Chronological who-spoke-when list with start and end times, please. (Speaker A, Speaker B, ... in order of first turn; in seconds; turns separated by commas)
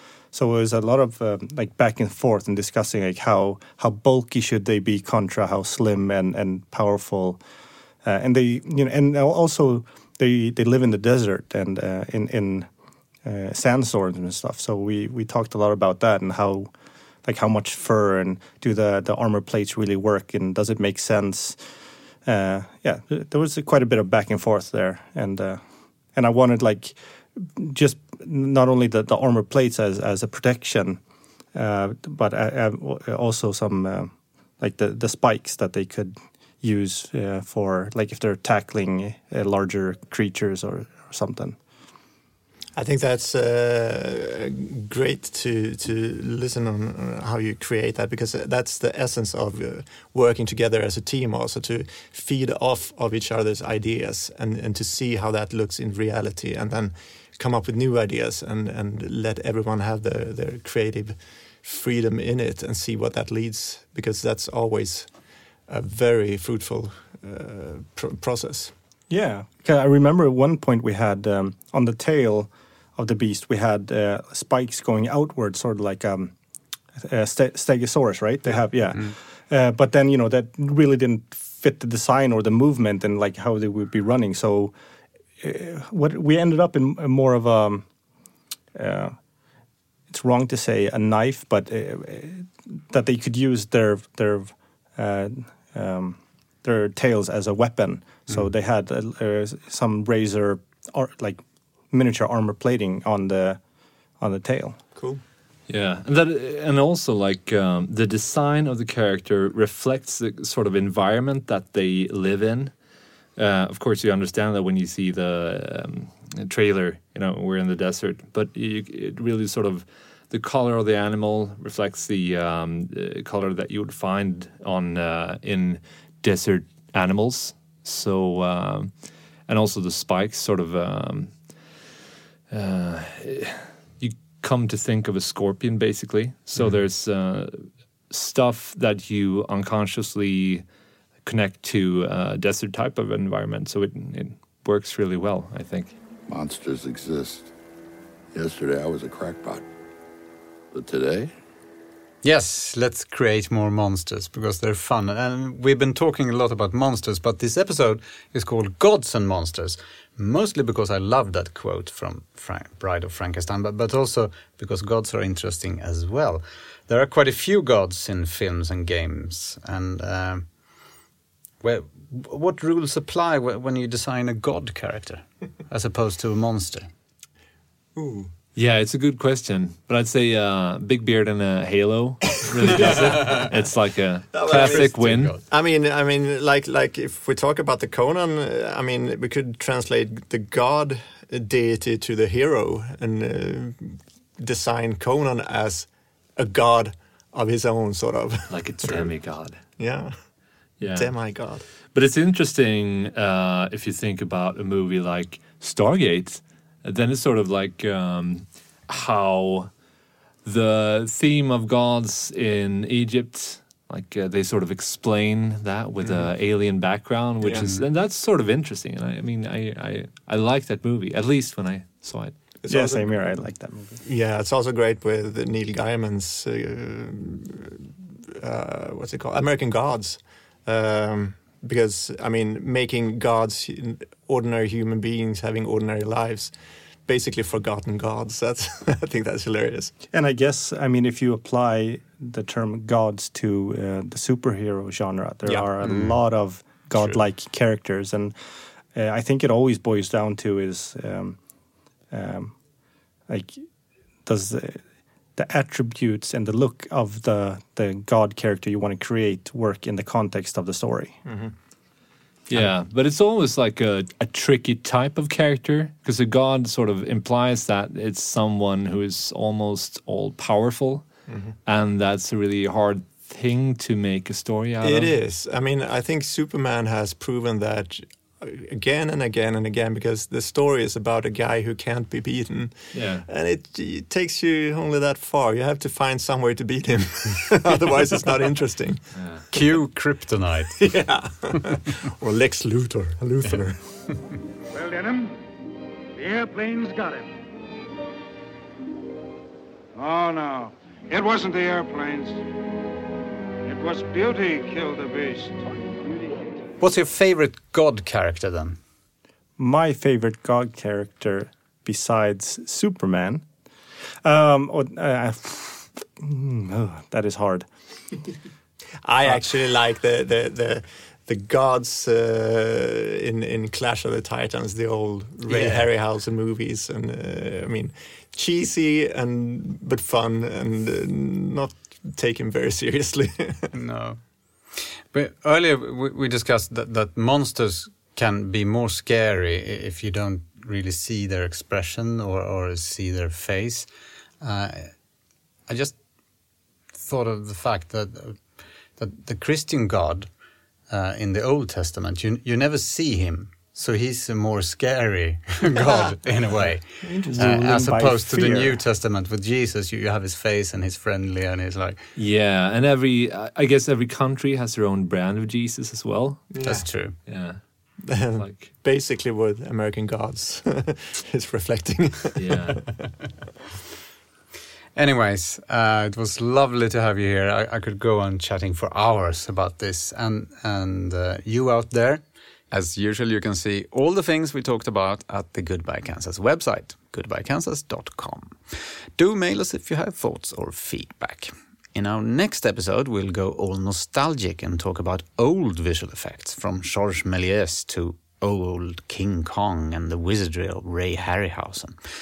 Speaker A: 0.3-7.4, Speaker A: 8.0-12.7, Speaker A: 13.2-16.7, Speaker A: 17.2-21.6, Speaker A: 22.2-25.6, Speaker A: 26.1-31.0, Speaker A: 31.5-41.6, Speaker B: 42.8-65.1, Speaker B: 65.7-68.7, Speaker A: 69.1-76.3, Speaker A: 76.9-84.7, Speaker A: 85.4-87.8, Speaker A: 88.7-89.2, Speaker A: 90.1-103.6, Speaker A: 104.2-104.8, Speaker B: 105.0-105.2, Speaker C: 105.7-112.7, Speaker C: 113.3-128.9, Speaker C: 129.5-131.3, Speaker C: 132.5-140.6, Speaker C: 141.2-145.9, Speaker D: 146.3-147.5, Speaker D: 148.3-149.6, Speaker D: 150.7-151.3, Speaker E: 152.2-170.5, Speaker E: 171.6-176.9, Speaker B: 177.9-178.3, Speaker C: 178.5-185.4, Speaker B: 182.6-183.6, Speaker B: 184.3-199.1, Speaker E: 184.6-185.4, Speaker C: 198.5-199.6, Speaker B: 199.8-200.2, Speaker C: 200.8-201.2, Speaker B: 200.9-201.6, Speaker C: 201.9-209.7, Speaker C: 210.4-222.3, Speaker B: 216.0-216.3, Speaker B: 217.4-217.7, Speaker B: 222.6-223.5, Speaker A: 222.7-224.0, Speaker B: 224.0-236.5, Speaker B: 237.1-239.9, Speaker A: 240.1-248.3, Speaker B: 245.4-245.7, Speaker E: 245.8-246.2, Speaker A: 248.9-251.4, Speaker A: 252.1-252.6, Speaker A: 253.3-253.6, Speaker A: 254.2-254.8, Speaker A: 255.3-261.2, Speaker B: 261.2-261.5, Speaker C: 262.5-271.1, Speaker B: 271.3-271.5, Speaker C: 271.6-275.1, Speaker B: 274.8-289.0, Speaker C: 282.9-283.2, Speaker C: 289.1-289.5, Speaker E: 289.5-290.8, Speaker B: 290.8-293.8, Speaker F: 294.7-295.4, Speaker F: 296.1-297.3, Speaker F: 299.9-302.4, Speaker F: 303.6-305.6, Speaker E: 306.8-308.8, Speaker A: 309.6-313.4, Speaker A: 314.2-317.7, Speaker B: 319.0-333.7, Speaker E: 325.5-325.9, Speaker E: 333.7-343.9, Speaker E: 344.4-345.0, Speaker E: 345.7-346.0, Speaker E: 347.0-350.3, Speaker E: 350.9-362.0, Speaker A: 357.0-358.8, Speaker B: 357.0-357.4, Speaker C: 362.1-366.5, Speaker B: 366.5-366.9, Speaker E: 366.6-367.1, Speaker C: 367.3-367.6, Speaker B: 368.0-372.9, Speaker C: 368.4-368.7, Speaker C: 372.4-372.9, Speaker E: 374.9-402.0